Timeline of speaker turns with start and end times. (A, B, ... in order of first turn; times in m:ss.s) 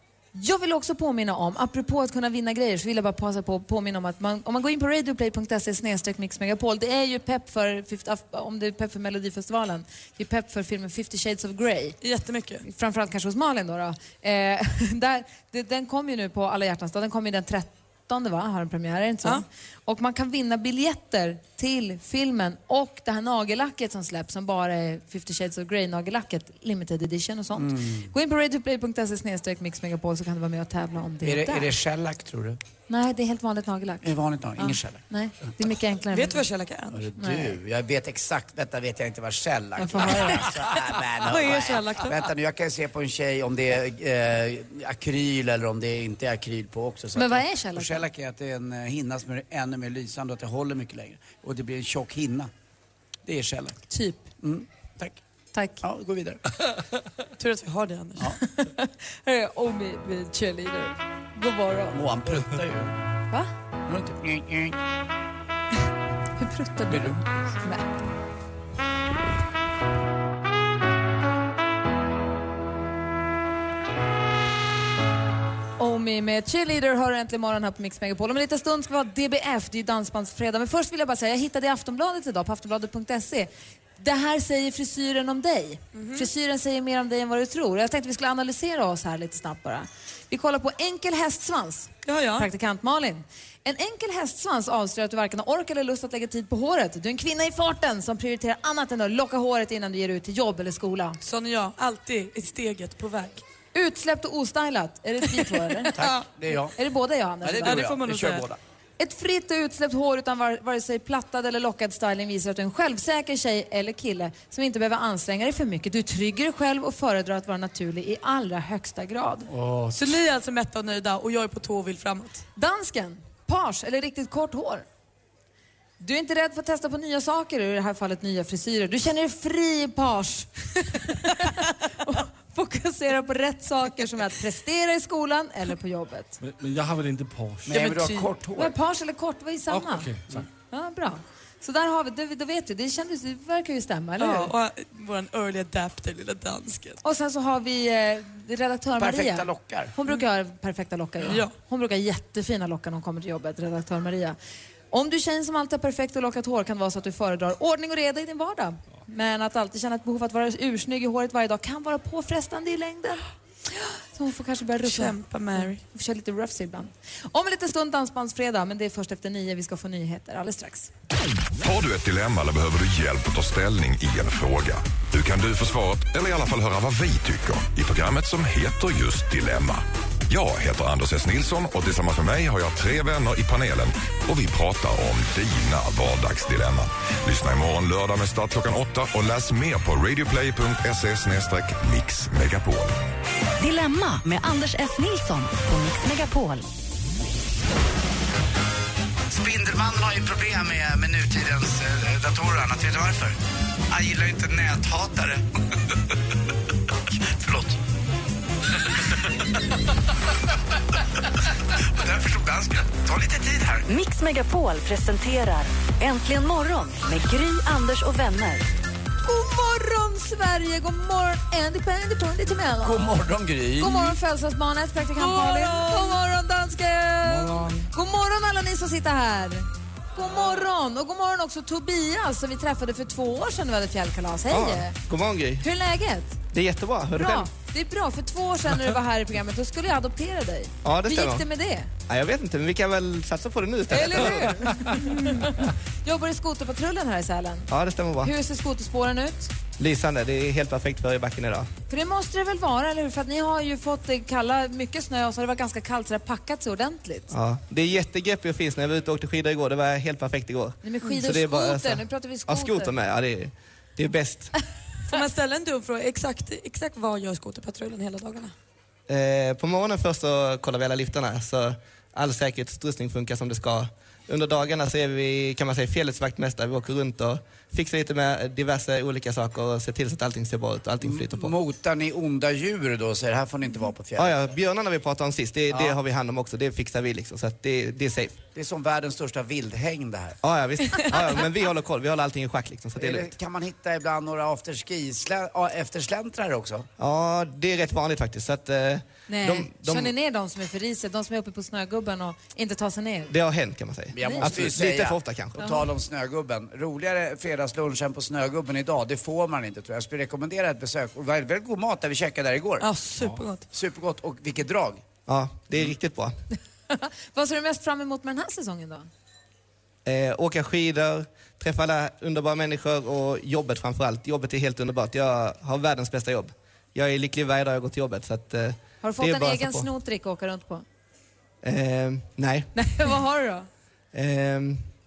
0:00.3-0:12.0 A
0:12.0-0:12.6 B
0:12.6-0:31.7 A
0:27.6-0:28.1 C
0:31.2-0:32.6 C
0:32.9-0:36.4 A
0:34.0-0:35.0 C
0:36.1-0:37.0 B
0:36.9-0:52.5 C
0:37.2-0:37.6 A
0:39.8-0:40.5 A
0:41.2-0:42.2 B
0:47.2-0:48.1 A
0:53.2-0:53.8 C
0:53.9-0:54.3 A
0:54.4-0:55.2 C
0:55.5-0:55.8 A
0:55.8-0:56.4 C
0:57.4-0:58.3 B
0:58.4-1:02.0 A
1:01.9-1:02.9 C
1:03.9-1:04.8 C
1:06.4-1:07.9 A
1:06.9-1:07.2 C
1:15.8-1:41.2 A
1:25.9-1:26.3 B
1:32.0-1:32.5 B
1:41.2-1:43.4 B
1:43.7-1:46.1 A
1:46.0-1:46.7 C
1:46.0-1:46.2 B
1:46.8-1:47.8 A
1:47.4-1:48.6 C
1:47.6-1:48.4 B
1:49.0-1:59.5 A
1:59.5-2:00.0 D
1:59.9-2:02.4 B
2:02.6-2:04.8 A
2:06.0-2:16.4 A
2:16.4-2:17.8 D
2:17.6-2:18.7 C
2:17.8-2:18.1 B
2:17.8-2:20.1 A
2:19.7-2:20.5 D
2:20.7-2:24.5 A
2:24.2-2:27.0 B
2:27.0-2:34.4 A
2:29.0-2:29.9 C
2:31.2-2:31.5 B
2:34.9-2:50.9 A
2:44.8-2:45.8 B
2:51.6-3:13.0 E
3:13.6-3:16.6 F
3:19.3-3:23.4 C
3:23.9-3:25.4 C
3:27.2-3:27.8 C
3:31.8-3:33.8 C
3:33.9-3:38.7 F
3:39.2-3:43.1 A
3:42.8-3:44.1 C
3:43.8-3:55.0 A
3:54.5-3:55.6 G
3:55.6-3:56.4 A
3:56.5-3:57.5 G
3:57.1-4:01.9 A
4:00.8-4:01.4 G
4:02.1-4:04.7 G
4:03.9-4:07.7 A
4:07.7-4:08.3 G
4:08.2-4:09.5 A
4:09.8-4:11.7 G
4:11.9-4:17.3 A
4:17.3-4:24.5 G
4:20.8-4:22.9 A
4:25.1-4:28.5 B
4:29.1-4:41.5 G
4:41.0-4:44.5 C
4:44.2-4:48.4 G
4:45.7-4:46.0 C
4:48.5-4:50.4 C
4:50.4-4:53.3 G
4:53.0-4:56.9 C
4:57.0-5:00.1 G
4:59.3-5:03.3 A
5:03.3-5:05.7 G
5:04.1-5:12.8 C
5:04.2-5:04.5 A
5:12.8-5:13.6 B
5:13.7-5:15.0 C
5:15.3-5:16.3 G
5:16.9-5:19.1 A
5:20.0-5:29.9 G
5:29.0-5:30.8 A
5:31.6-5:32.7 G
5:32.7-5:33.7 A
5:34.1-5:34.8 G